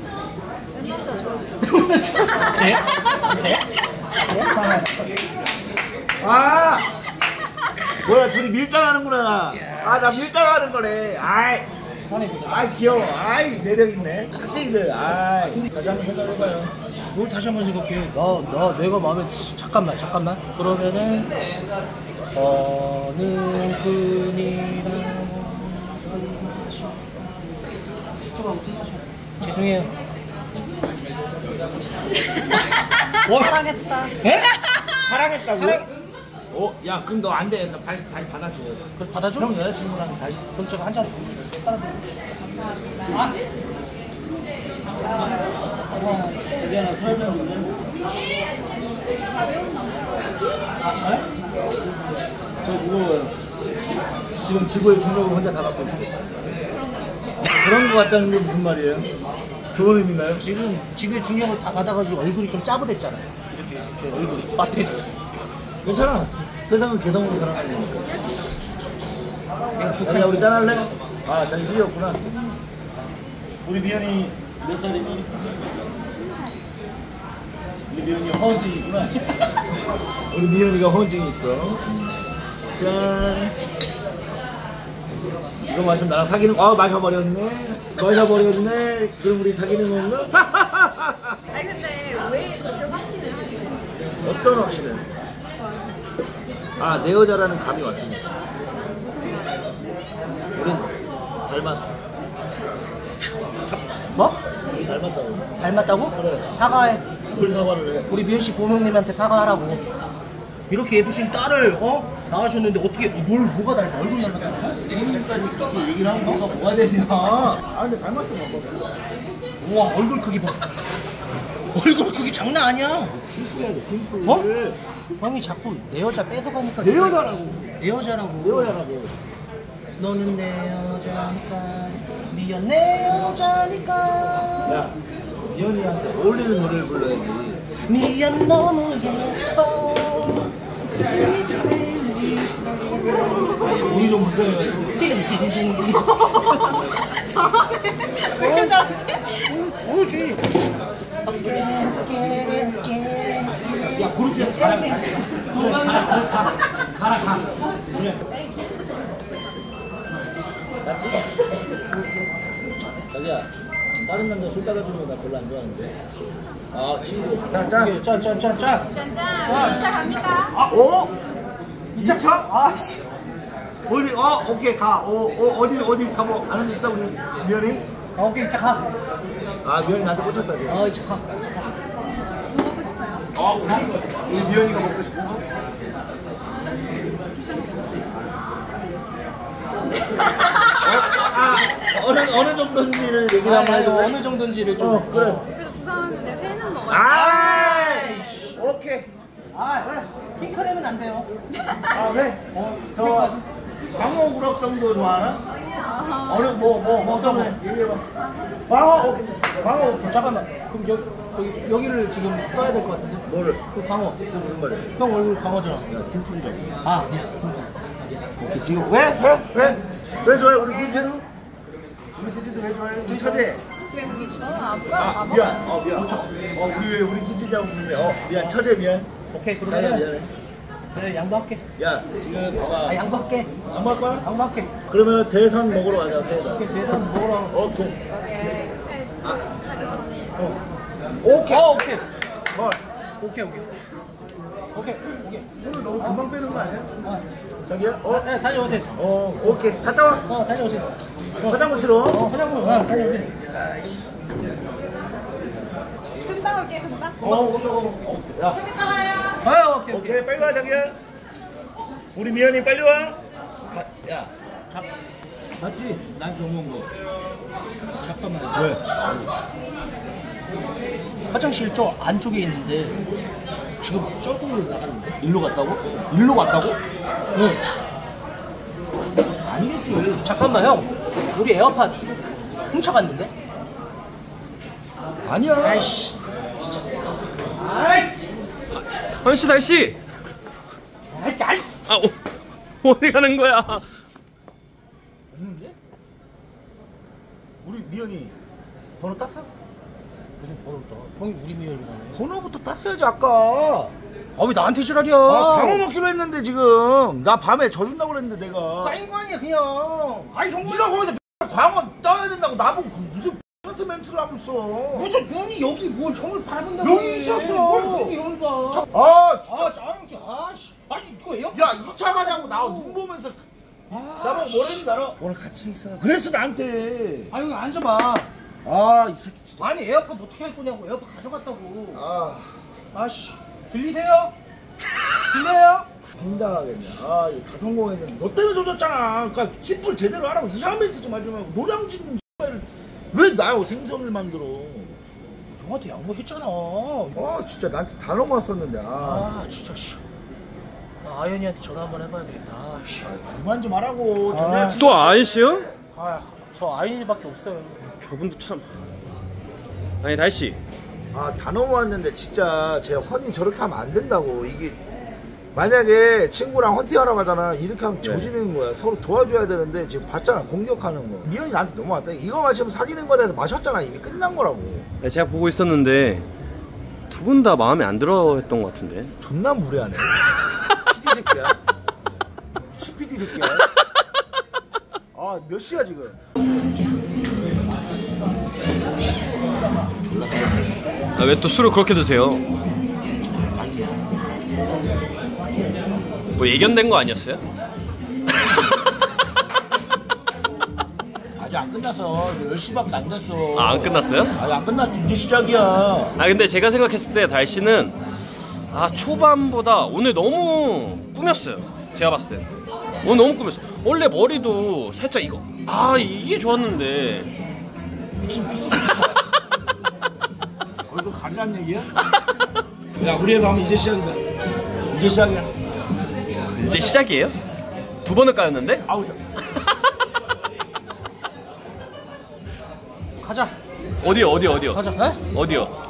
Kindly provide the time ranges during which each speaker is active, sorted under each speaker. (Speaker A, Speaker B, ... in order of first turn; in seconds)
Speaker A: 0.7-1.6, 49.1-50.4, 56.8-57.2, 91.5-94.2, 95.5-96.0, 98.8-99.8, 147.1-149.4, 158.3-159.4, 168.9-170.5, 182.5-183.3, 187.4-188.0, 195.5-197.2, 205.8-206.4, 223.9-225.6, 238.1-240.3, 256.2-257.4, 258.8-259.3
Speaker B: 1.6-3.6, 4.2-4.6, 12.1-12.7, 17.1-21.3, 22.3-27.0, 28.3-29.9, 33.0-34.8, 35.5-35.9, 39.0-39.6, 40.4-42.0, 43.1-43.4, 45.1-46.4, 50.8-51.2, 60.4-65.1, 69.7-70.6, 104.1-104.4, 105.6-107.0, 108.1-109.8, 110.7-114.9, 119.6-120.8, 121.7-123.2, 125.2-128.8, 130.0-134.9, 137.8-143.9, 144.9-146.8, 148.3-150.5, 151.3-156.5, 167.5-170.1, 171.9-173.1, 178.2-178.9, 180.7-181.8, 193.4-195.5, 197.1-198.6, 199.5-201.3, 202.5-203.4, 207.0-207.6, 210.0-214.3, 214.9-215.9, 216.8-217.9, 220.4-221.2, 223.1-223.5, 226.0-226.2, 229.3-230.1, 230.9-231.6, 232.9-233.5, 234.2-234.7, 236.5-237.6, 241.5-242.0, 243.2-243.7, 244.7-246.2, 248.1-248.9, 250.2-253.3, 259.4-260.2, 268.0-268.8, 271.3-273.0, 273.8-275.2, 277.4-277.6, 280.2-282.2, 282.7-283.3, 285.6-286.2, 287.6-288.3, 291.1-292.1, 300.4-302.2, 304.4-305.9, 308.8-311.1, 314.9-318.9, 319.5-323.0, 323.9-324.8, 327.3-328.3, 329.6-332.1, 332.9-334.3, 335.3-335.9, 345.6-347.2, 349.0-350.0, 351.0-353.1, 354.3-354.9, 355.9-357.9, 433.2-433.5, 434.7-435.2
Speaker C: 4.4-5.0, 6.2-6.9, 8.0-11.7, 12.4-16.7, 34.9-35.9, 36.5-38.8, 39.4-40.5, 46.4-47.8, 52.6-53.4, 54.4-56.2, 57.4-59.1, 59.7-60.5, 65.8-68.3, 69.9-72.3, 73.6-75.7, 77.9-79.3, 80.3-82.0, 82.8-83.5, 85.6-91.4, 94.2-95.1, 96.8-98.3, 100.5-100.9, 101.5-102.0, 104.7-106.7, 107.3-108.1, 114.9-118.8, 123.1-124.8, 126.8-127.8, 128.4-129.1, 134.7-137.7, 143.6-145.1, 153.9-158.3, 160.8-161.3, 163.1-166.0, 166.7-168.5, 170.4-171.2, 171.9-172.6, 173.9-177.9, 179.6-180.8, 183.3-185.5, 190.7-195.5, 196.9-199.1, 201.9-203.4, 203.9-205.4, 206.2-208.1, 208.7-210.4, 213.3-213.6, 214.3-214.9, 215.9-216.8, 218.4-221.2, 222.1-223.6, 224.9-229.1, 229.7-230.3, 231.8-233.1, 233.7-234.3, 234.9-236.8, 237.5-238.0, 241.2-241.8, 245.6-246.9, 247.7-248.3, 248.9-250.3, 251.4-253.3, 257.2-258.8, 259.9-261.0, 262.1-264.3, 265.6-266.9, 268.6-268.8, 275.2-276.8, 279.5-280.3, 285.2-285.9, 295.3-295.8, 297.6-298.4, 299.0-299.5, 302.1-303.9, 305.3-309.0, 310.6-315.1, 316.8-318.1, 318.8-319.8, 321.5-327.3, 328.6-329.7, 331.9-332.6, 336.1-345.0, 347.1-349.3, 353.0-355.1, 361.1-364.8, 365.5-374.9, 379.2-380.1, 380.9-381.6, 382.7-383.7, 385.1-386.2, 390.0-390.8, 393.5-394.1, 401.4-406.2, 418.2-419.2, 420.9-422.0, 423.0-424.2, 424.9-425.5, 428.9-429.2
Speaker D: 288.8-290.0, 291.9-292.3, 292.8-293.9, 354.8-355.7, 358.0-358.7, 360.0-360.6, 368.0-368.3, 375.0-376.3, 377.1-379.1, 391.2-392.4, 396.4-397.4, 403.6-404.4, 406.2-408.0, 408.7-412.5, 413.0-417.3, 426.5-427.4, 428.0-428.9, 434.0-435.7